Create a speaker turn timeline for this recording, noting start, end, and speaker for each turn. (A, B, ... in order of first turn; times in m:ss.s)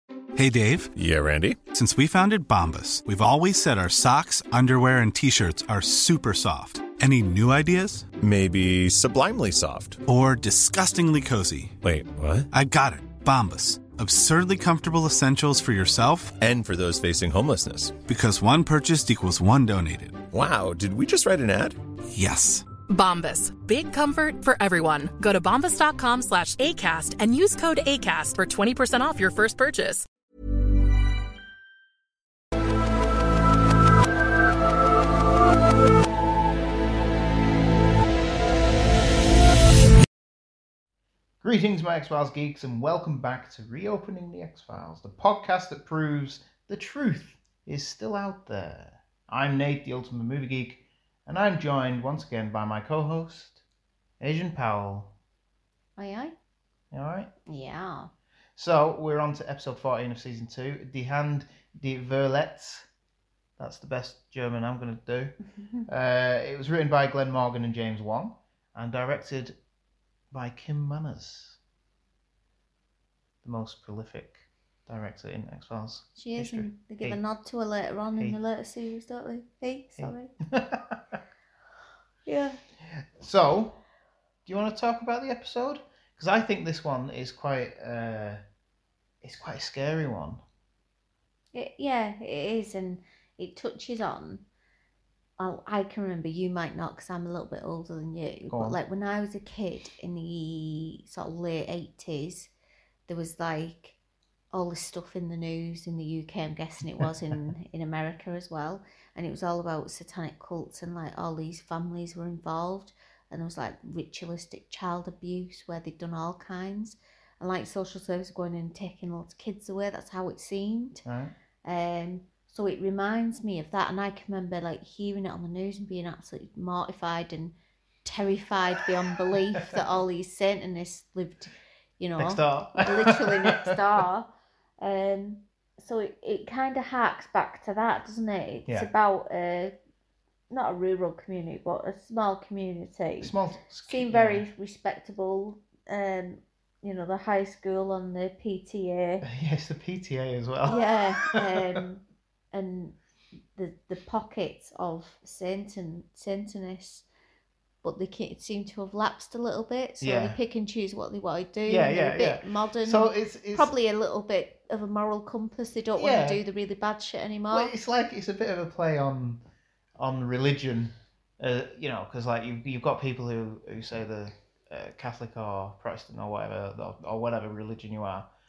0:00.4-0:00.9 A
0:00.9-0:01.6 B
0:01.7-0:08.1 A
0:08.2-0:10.0 B
0:10.0-0:11.8 A
0:11.8-0:12.5 B
0:12.5-0:16.4 A
0:16.4-0:18.0 B
0:18.1-0:20.2 A
0:20.3-0:21.8 B
0:22.1-0:22.6 A
0:22.9-0:30.0 C
0:41.4-0:53.6 D
0:54.2-0:55.1 D
0:56.0-0:56.3 E
0:56.9-0:57.3 D
0:57.5-0:58.1 E
0:58.6-1:02.9 D
1:03.6-1:05.3 D
1:05.5-1:05.9 E
1:05.9-1:09.6 D
1:10.3-1:11.6 D
1:13.4-1:17.2 D
1:16.2-1:20.3 E
1:20.0-1:21.2 D
1:22.2-1:22.6 E
1:22.9-1:23.8 D
1:24.4-1:28.4 D
1:29.2-1:30.4 D
1:31.5-1:34.4 E
1:35.4-1:42.5 E
1:38.5-1:38.8 D
1:43.1-1:44.0 E
1:44.5-2:01.0 E
2:01.0-2:01.3 D
2:01.6-2:07.5 E
2:08.0-2:14.3 E
2:12.2-2:14.0 D
2:14.8-2:19.7 E
2:20.5-2:23.3 E
2:23.2-2:24.4 D
2:23.8-2:29.2 E
2:29.2-2:31.8 D
2:30.6-2:33.0 E
2:33.5-2:37.0 E
2:37.8-2:47.7 E
2:40.0-2:40.4 D
2:41.7-2:43.7 D
2:46.0-2:46.4 D
2:47.5-2:49.4 D
2:50.0-2:58.3 D